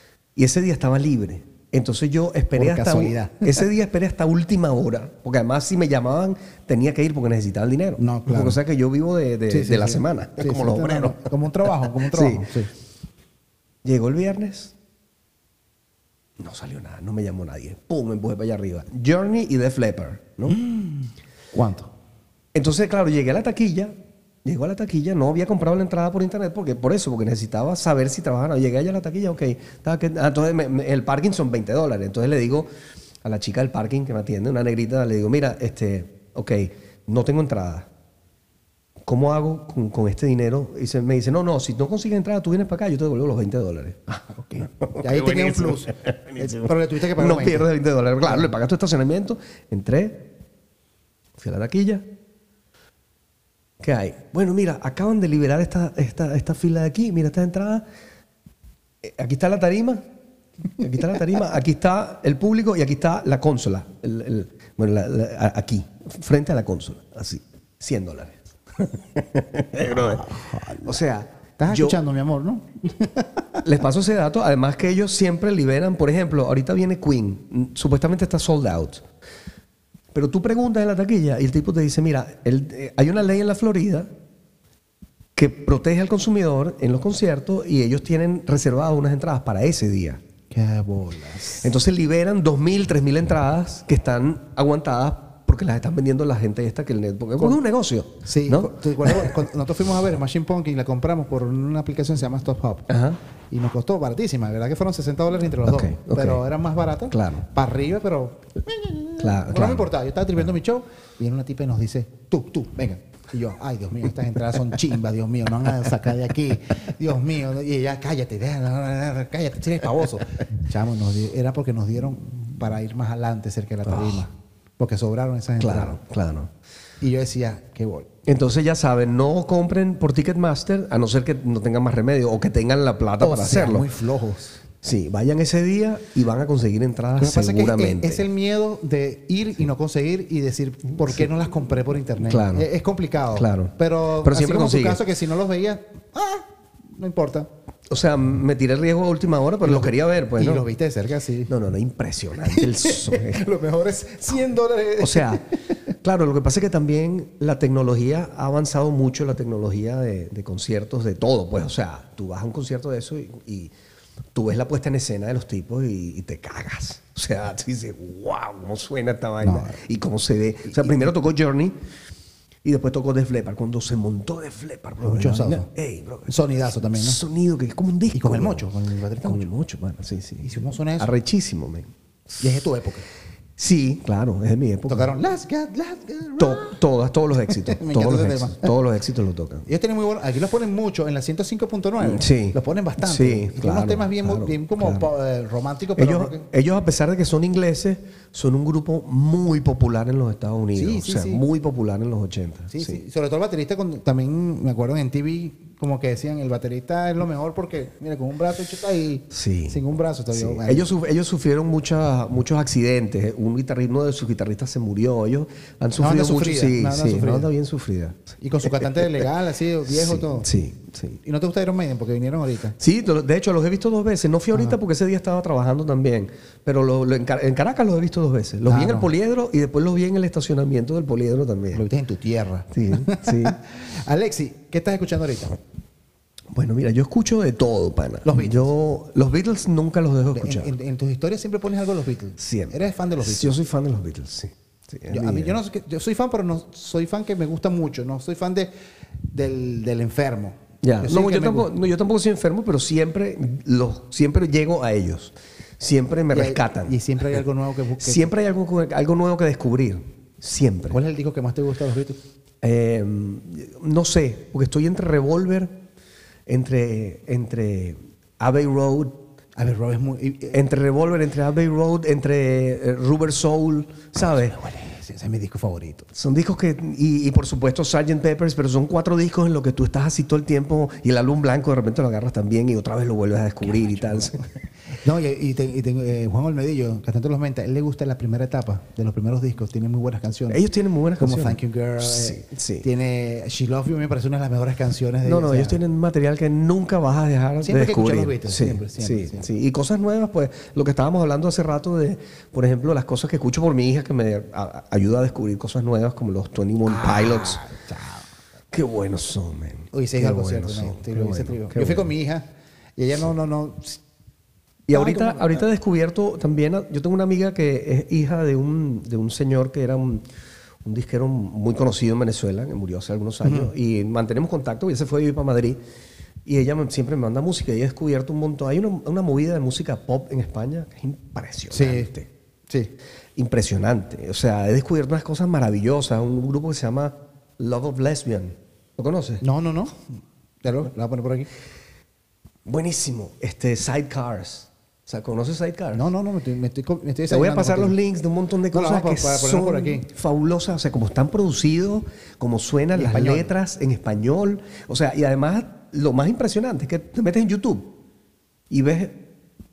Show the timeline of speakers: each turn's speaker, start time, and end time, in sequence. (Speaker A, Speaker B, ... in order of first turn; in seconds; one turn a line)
Speaker A: 0.3-11.3
Speaker B: 2.5-3.6
Speaker B: 8.0-8.6
Speaker B: 9.5-12.7
Speaker A: 11.9-12.5
Speaker A: 13.8-14.7
Speaker A: 16.4-20.6
Speaker B: 20.5-21.9
Speaker A: 22.5-23.9
Speaker A: 24.4-32.7
Speaker A: 33.2-37.9
Speaker A: 39.0-50.2
Speaker B: 44.3-47.7
Speaker B: 48.2-48.5
Speaker A: 51.4-52.0
Speaker A: 53.8-57.8
Speaker A: 59.0-60.0
Speaker A: 60.8-72.0
Speaker B: 69.8-71.0
Speaker B: 71.6-73.6
Speaker A: 73.6-79.0
Speaker A: 80.1-84.1
Speaker A: 85.3-90.2
Speaker B: 90.5-91.7
Speaker A: 91.5-99.4
Speaker B: 98.2-102.9
Speaker A: 102.9-103.2
Speaker B: 103.5-126.0
Speaker A: 105.7-106.4
Speaker A: 107.1-107.4
Speaker A: 109.2-109.9
Speaker A: 123.8-124.2
Speaker A: 125.6-126.5
Speaker B: 127.0-128.1
Speaker A: 128.3-133.9
Speaker B: 133.2-134.6
Speaker A: 134.8-138.3
Speaker B: 137.2-146.4
Speaker A: 142.2-142.7
Speaker A: 143.3-145.0
Speaker B: 147.0-147.5
Speaker A: 147.9-150.7
Speaker B: 149.6-151.5
Speaker A: 151.5-153.5
Speaker B: 152.4-155.7
Speaker A: 155.0-155.4
Speaker A: 156.0-163.7
Speaker A: 164.3-171.7
Speaker B: 169.4-169.8
Speaker B: 170.7-171.1
Speaker A: 172.6-178.7
Speaker B: 175.0-175.7
Speaker B: 176.3-177.2
Speaker B: 178.1-179.5
Speaker A: 179.2-181.9
Speaker B: 180.4-181.1
Speaker B: 182.4-183.1
Speaker A: 183.6-185.1
Speaker B: 184.9-186.8
Speaker A: 186.4-189.7
Speaker B: 187.5-188.8
Speaker B: 189.7-196.4
Speaker A: 192.0-195.1
Speaker A: 196.0-203.0
Speaker B: 200.7-201.4
Speaker B: 202.7-210.9
Speaker A: 209.3-209.8
Speaker A: 210.3-219.2
Speaker B: 215.9-217.5
Speaker B: 218.4-220.5
Speaker A: 219.9-221.2
Speaker B: 221.2-222.8
Speaker A: 222.8-231.8
Speaker B: 228.7-229.1
Speaker B: 231.7-235.6
Speaker A: 232.7-233.6
Speaker A: 236.5-240.7
Speaker B: 238.2-238.7
Speaker B: 240.3-243.6
Speaker A: 242.4-245.6
Speaker B: 245.1-248.7
Speaker B: 249.3-251.7
Speaker A: 250.8-257.0
Speaker B: 256.3-258.3
Speaker A: 258.0-261.0
Speaker B: 260.9-262.2
Speaker A: 262.6-265.7
Speaker A: 266.5-269.1
Speaker B: 269.6-270.6
Speaker A: 270.5-274.6
Speaker B: 274.2-276.1
Speaker A: 276.1-284.4
Speaker B: 283.6-284.4
Speaker B: 285.0-290.6
Speaker A: 290.5-292.9
Speaker B: 291.2-295.8
Speaker A: 295.2-307.6
Speaker B: 297.6-299.5
Speaker B: 306.9-308.2
Speaker A: 308.7-312.1
Speaker B: 309.9-314.0
Speaker A: 314.9-320.2
Speaker B: 314.9-315.6
Speaker A: 320.8-325.8
Speaker B: 323.4-323.7
Speaker A: 326.4-332.3
Speaker B: 331.7-332.1
Speaker A: 333.4-339.4
Speaker B: 339.4-340.0
Speaker B: 340.6-341.5
Speaker A: 342.6-346.0
Speaker B: 345.9-347.9
Speaker A: 347.3-357.9
Speaker B: 348.7-350.1
Speaker B: 352.9-353.5
Speaker A: 358.7-359.2